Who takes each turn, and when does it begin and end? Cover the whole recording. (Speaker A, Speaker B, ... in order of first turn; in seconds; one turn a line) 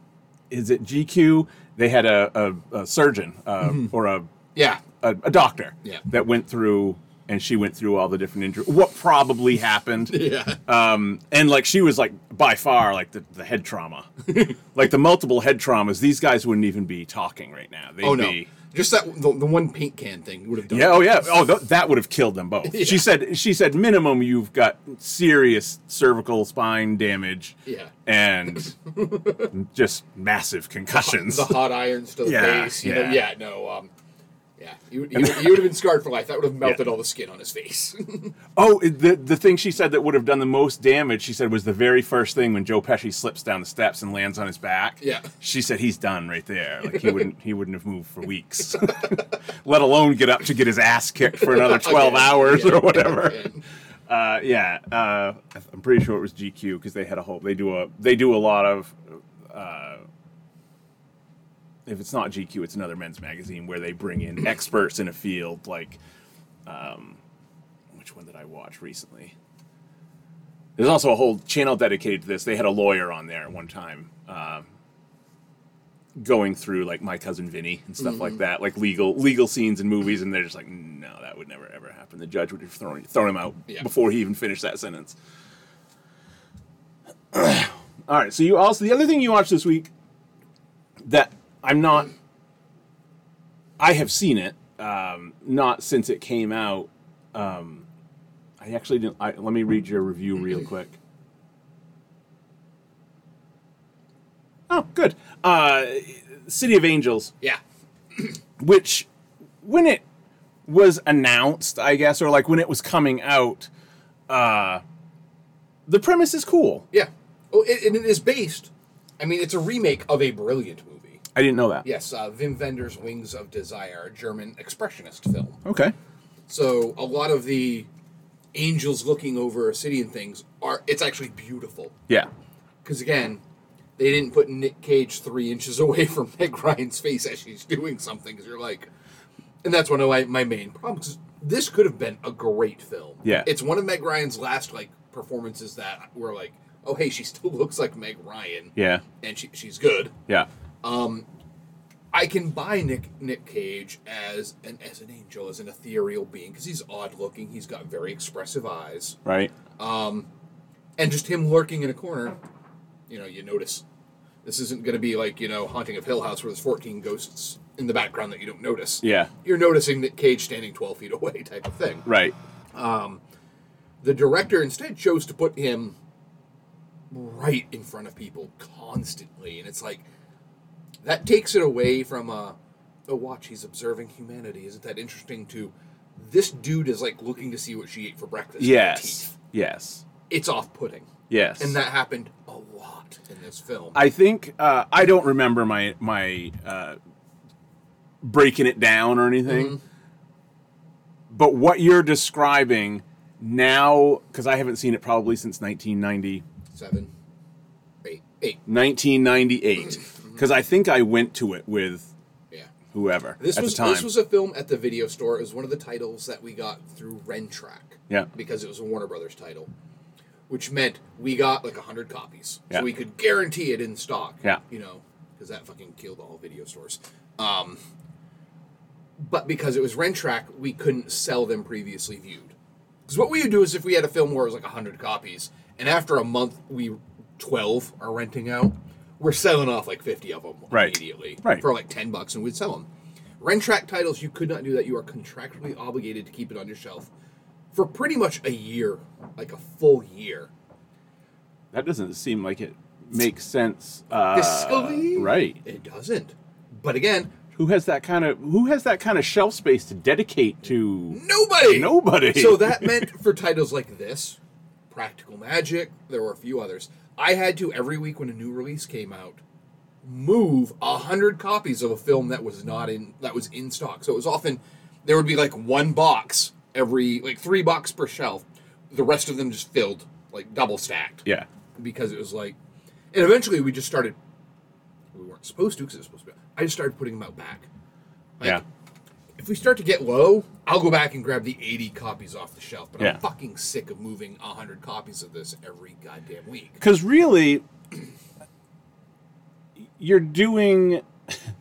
Speaker A: 0.5-4.3
Speaker B: 3.6-3.9
Speaker B: 4.5-4.8
Speaker A: 4.8-18.5
Speaker B: 10.1-10.6
Speaker B: 18.0-21.3
Speaker A: 20.7-28.8
Speaker B: 22.6-23.1
Speaker B: 27.6-27.9
Speaker B: 28.9-29.5
Speaker A: 29.5-31.7
Speaker B: 30.9-33.9
Speaker A: 32.2-33.3
Speaker B: 34.6-38.3
Speaker A: 35.1-35.8
Speaker A: 38.5-53.5
Speaker B: 45.0-45.3
Speaker B: 51.4-53.6
Speaker A: 54.1-60.0
Speaker A: 61.9-66.0
Speaker A: 66.7-67.2
Speaker A: 67.9-69.3
Speaker A: 70.8-74.7
Speaker A: 76.1-85.2
Speaker B: 78.0-78.3
Speaker A: 87.3-89.9
Speaker A: 91.0-92.1
Speaker A: 93.8-97.8
Speaker A: 98.6-101.0
Speaker A: 104.7-107.3
Speaker A: 108.6-109.1
Speaker A: 109.6-110.0
Speaker A: 110.7-113.7
Speaker A: 114.3-114.8
Speaker A: 115.9-116.8
Speaker B: 116.9-121.2
Speaker A: 121.3-121.8
Speaker B: 121.8-125.6
Speaker A: 125.6-125.9
Speaker B: 126.5-127.9
Speaker B: 128.5-132.0
Speaker B: 132.8-133.4
Speaker B: 134.0-138.9
Speaker B: 139.6-150.1
Speaker A: 143.2-143.5
Speaker A: 148.8-149.0
Speaker B: 150.8-151.2
Speaker B: 152.1-159.2
Speaker A: 159.2-159.5
Speaker B: 159.8-160.3
Speaker B: 161.0-162.4
Speaker B: 163.1-163.8
Speaker B: 164.4-172.1
Speaker A: 169.0-169.3
Speaker A: 172.0-172.3
Speaker B: 172.7-173.2
Speaker B: 174.0-175.9
Speaker B: 177.1-180.1
Speaker B: 181.0-189.3
Speaker A: 188.6-190.0
Speaker B: 190.3-194.0
Speaker A: 191.3-191.8
Speaker A: 193.9-197.0
Speaker A: 198.2-199.8
Speaker B: 199.5-199.8
Speaker A: 201.3-206.4
Speaker B: 206.7-207.1
Speaker B: 208.0-208.6
Speaker A: 208.7-212.1
Speaker A: 212.9-214.1
Speaker B: 213.4-219.7
Speaker B: 220.5-227.8
Speaker B: 229.2-232.5
Speaker B: 233.1-242.9
Speaker A: 240.7-241.6
Speaker B: 243.4-247.1
Speaker B: 247.7-250.5
Speaker A: 251.7-255.6
Speaker B: 254.3-257.4
Speaker A: 257.5-263.1
Speaker B: 261.1-264.4
Speaker B: 264.9-269.4
Speaker B: 270.0-282.6
Speaker B: 283.1-284.1
Speaker B: 285.1-287.7
Speaker B: 288.4-288.6
Speaker B: 289.4-296.8
Speaker A: 296.8-297.6
Speaker A: 300.0-301.4